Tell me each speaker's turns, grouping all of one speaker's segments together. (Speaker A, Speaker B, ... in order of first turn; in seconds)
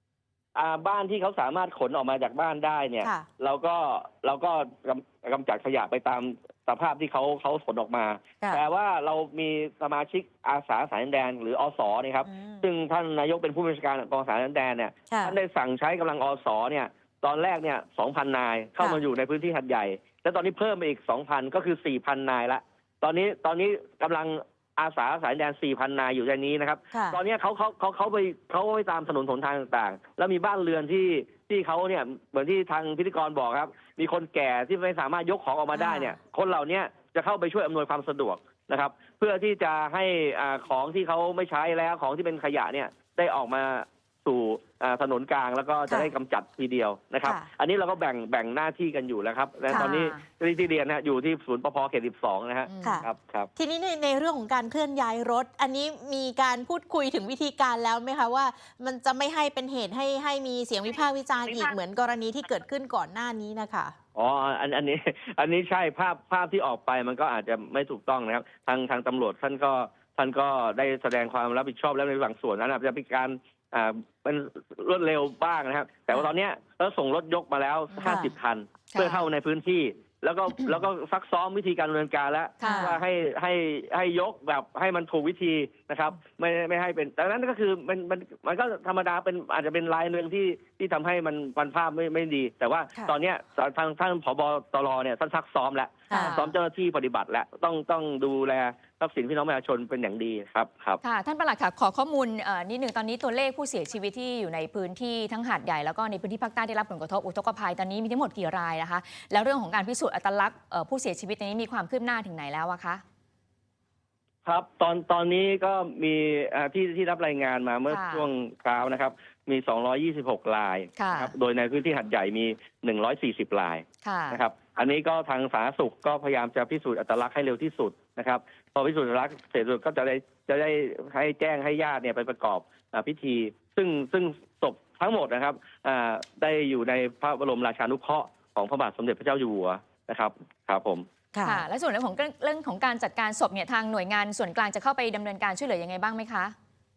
Speaker A: 0.5-53.5, 64.1-101.0, 114.4-141.1
Speaker B: 12.2-12.6, 15.1-15.4, 26.9-27.2, 35.7-36.1, 49.7-49.9, 52.8-63.9, 78.0-78.3, 82.6-83.0, 96.1-96.4, 141.3-141.6
Speaker C: 49.7-50.2, 52.7-53.0, 78.9-79.3, 82.6-82.9, 96.1-96.5, 101.0-113.0, 117.9-118.3, 121.0-121.3, 124.0-124.4, 141.4-146.5